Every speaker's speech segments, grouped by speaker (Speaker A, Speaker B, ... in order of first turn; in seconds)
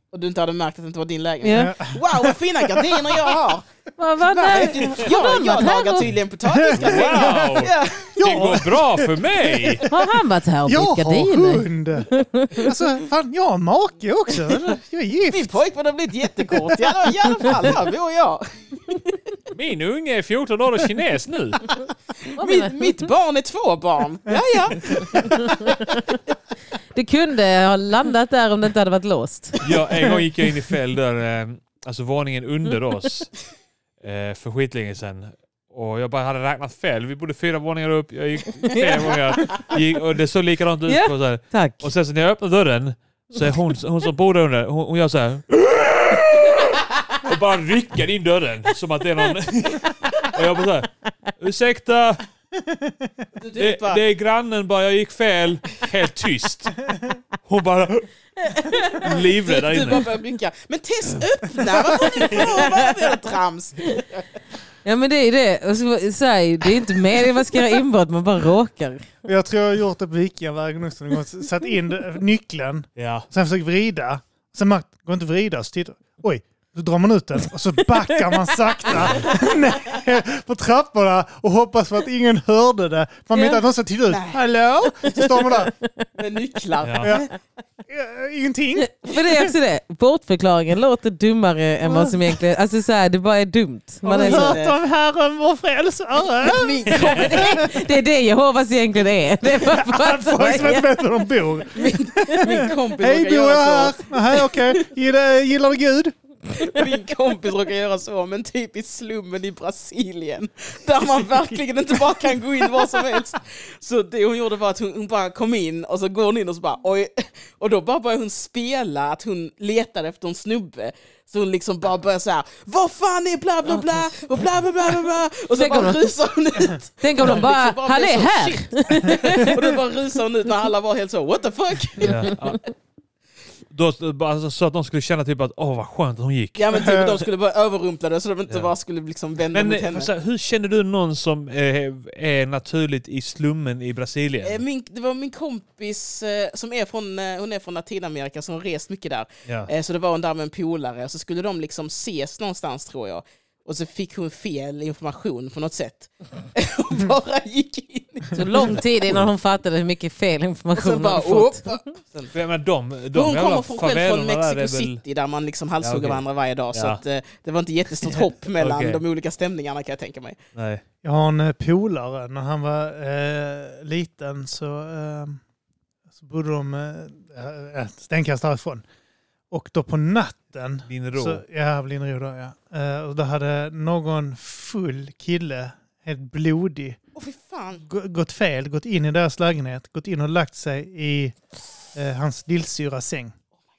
Speaker A: 0.1-3.7, 4.2-8.2, 15.3-19.1, 22.3-26.1, 53.4-54.0, 58.9-64.2, 84.1-84.4, 85.1-85.4, 86.2-87.3, 94.0-94.8, 96.4-97.7, 101.7-104.8, 106.5-132.3, 136.6-140.1, 144.4-158.8, 160.8-162.3, 163.1-170.4, 187.2-187.8
Speaker B: 1.4-1.7, 4.0-6.1, 9.9-12.7, 22.4-22.9, 24.9-26.0, 26.9-29.7, 40.9-41.9, 62.3-62.8, 64.8-69.1, 83.3-83.6, 85.8-86.1, 88.8-94.6, 97.0-100.9, 123.7-124.1, 125.5-126.1, 127.0-129.7, 158.3-161.7
Speaker C: 1.5-3.3, 6.5-7.5, 8.1-10.0, 10.7-15.6, 16.5-16.9, 24.9-25.3, 52.6-53.1, 69.2-85.7, 87.0-87.3, 87.9-89.5, 94.2-97.6, 99.5-106.1, 136.7-137.2, 171.0-175.4, 176.2-178.8, 179.5-187.0, 187.8-191.4, 191.9-193.3
Speaker D: 6.8-9.9, 19.5-21.7, 29.6-33.3, 34.0-52.2, 53.6-56.8, 57.4-58.1, 58.9-60.1, 73.0-73.3, 79.0-79.3, 86.8-87.1, 96.9-97.4, 132.0-132.7, 133.7-136.7, 139.5-144.6, 162.3-165.0, 165.8-167.0, 168.1-169.0, 170.6-170.8, 180.9-181.4